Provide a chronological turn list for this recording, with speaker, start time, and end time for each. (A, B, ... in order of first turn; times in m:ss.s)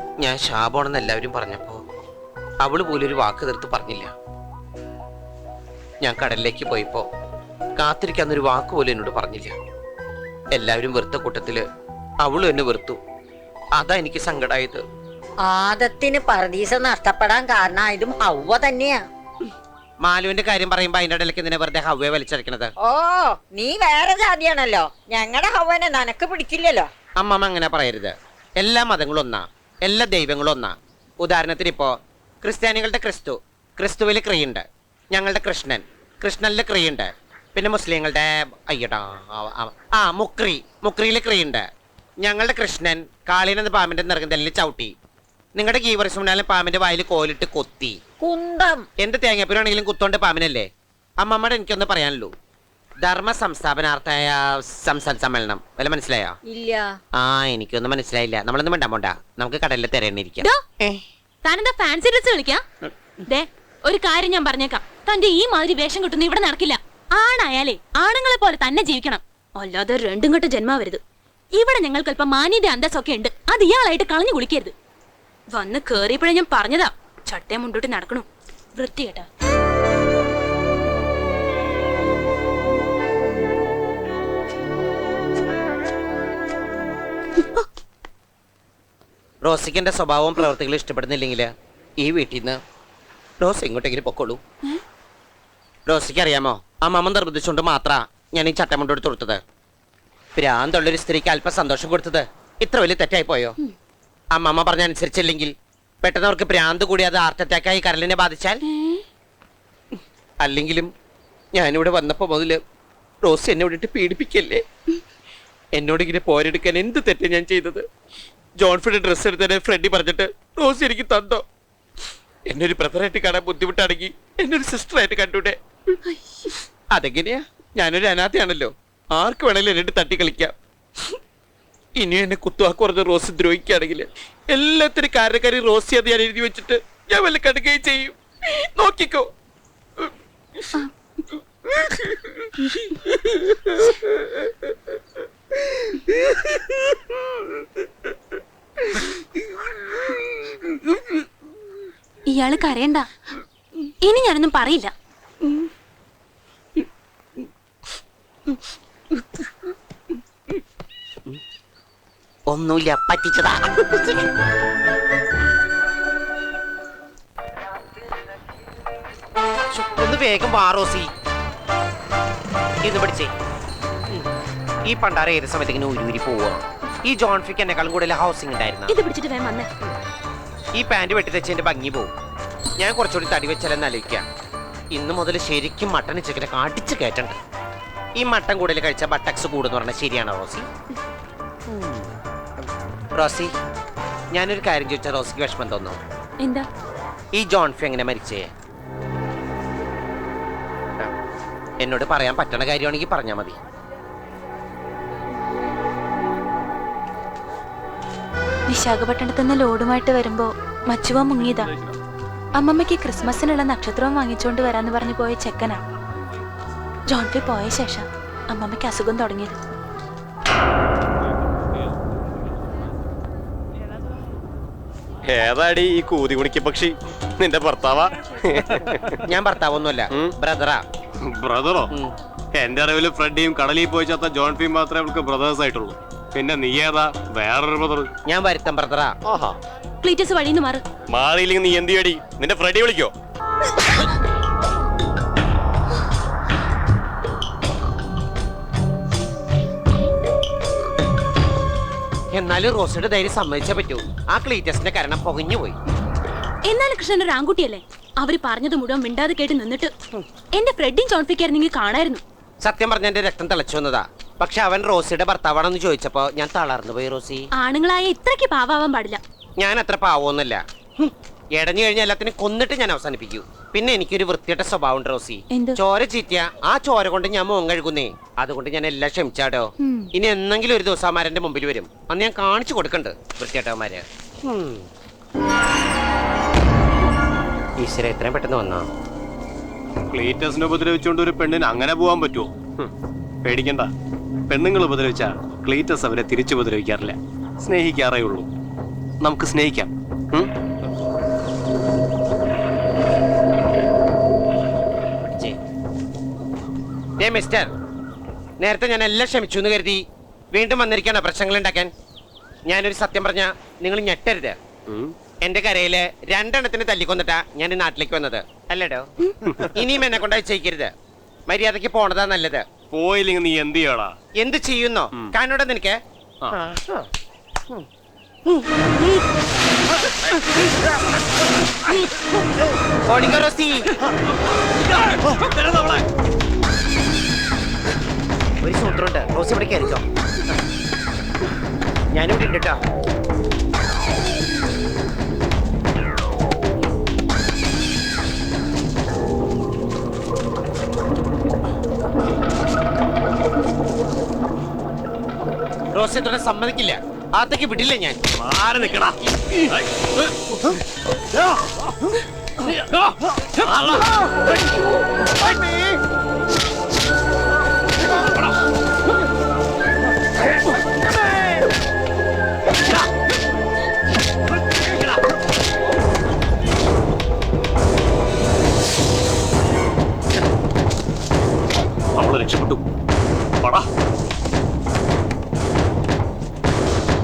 0:00.2-0:01.8 A
0:02.6-0:04.1 A
0:06.0-0:07.1 A
0:07.8-0:09.5 A
0:10.5-0:11.6 A
0:12.2-0:13.0 A
0:13.7-0:14.8 A
0:15.5-0:19.0 B
0:20.0-0:22.7 A
0:22.8-0:26.9 B
0:27.2-0:41.6 A
0:42.2-0:44.9 A
0:45.6-0:48.0 A
0:48.2-0:48.8 B
0:49.0-0:50.7 A
0:51.2-0:52.3 A
0:53.0-0:56.4 A
0:56.5-0:56.8 B
0:57.2-1:01.0 A
1:01.4-1:02.6 C
1:03.2-1:11.0 C
1:11.6-1:14.7 C
1:15.5-1:19.3 C
1:29.4-1:32.6 A
1:33.4-1:34.4 A
1:35.9-1:39.4 A
1:40.4-1:43.6 A
1:44.3-1:45.5 A
1:46.0-1:48.6 A
1:50.4-1:50.9 A
1:51.6-1:52.6 A
1:53.2-1:54.6 A
1:55.7-1:57.8 A
1:58.6-2:01.4 A
2:02.5-2:05.6 A
2:06.9-2:10.5 A
2:12.0-2:18.1 A
2:18.7-2:19.3 A
2:32.3-2:33.1 C
2:34.0-2:34.9 C
2:42.5-2:43.9 A
2:49.7-2:51.1 A
2:52.8-2:53.3 A
2:54.9-2:58.9 A
2:58.9-2:59.7 C
3:00.8-3:02.1 A
3:02.8-3:04.3 A
3:04.9-3:07.4 A
3:08.2-3:10.7 A
3:11.7-3:12.0 A
3:13.2-3:13.5 A
3:14.3-3:16.0 A
3:16.4-3:16.7 C
3:17.3-3:18.5 A
3:21.8-3:23.6 A
3:28.7-3:31.7 C
3:32.6-3:35.8 C
3:37.1-3:39.6 C
3:45.3-3:46.9 D
3:45.6-3:46.9 E
3:47.4-3:48.0 D
3:47.6-3:48.0 E
3:49.3-3:50.8 A
3:51.4-3:51.8 D
3:52.6-3:58.1 D
3:52.8-3:53.8 E
3:58.3-3:59.1 A
4:00.0-4:00.8 C
4:01.1-4:03.1 D
4:01.3-4:03.1 E
4:12.3-4:15.8 A
4:16.7-4:19.9 C
4:20.5-4:22.2 C
4:22.6-4:27.4 A
4:27.6-4:29.2 C
4:29.6-4:44.8 A
4:35.5-4:35.8 C
4:39.8-4:40.1 C
4:47.8-4:48.9 A
4:50.1-4:52.8 D
4:53.5-4:53.9 D
4:54.5-4:58.5 D
4:59.2-5:00.5 D
5:07.2-5:07.7 A
5:08.6-5:10.0 A
5:10.5-5:11.9 A
5:12.7-5:14.6 A
5:15.4-5:20.9 A
5:21.5-5:22.6 A
5:22.9-5:24.1 D
5:24.4-5:26.0 A
5:26.5-5:27.1 A
5:28.5-5:29.1 A
5:33.1-5:33.9 A
5:38.6-5:40.0 A
5:42.1-5:42.8 A
5:55.9-5:58.2 A
5:58.6-5:59.0 E
6:22.2-6:22.8 E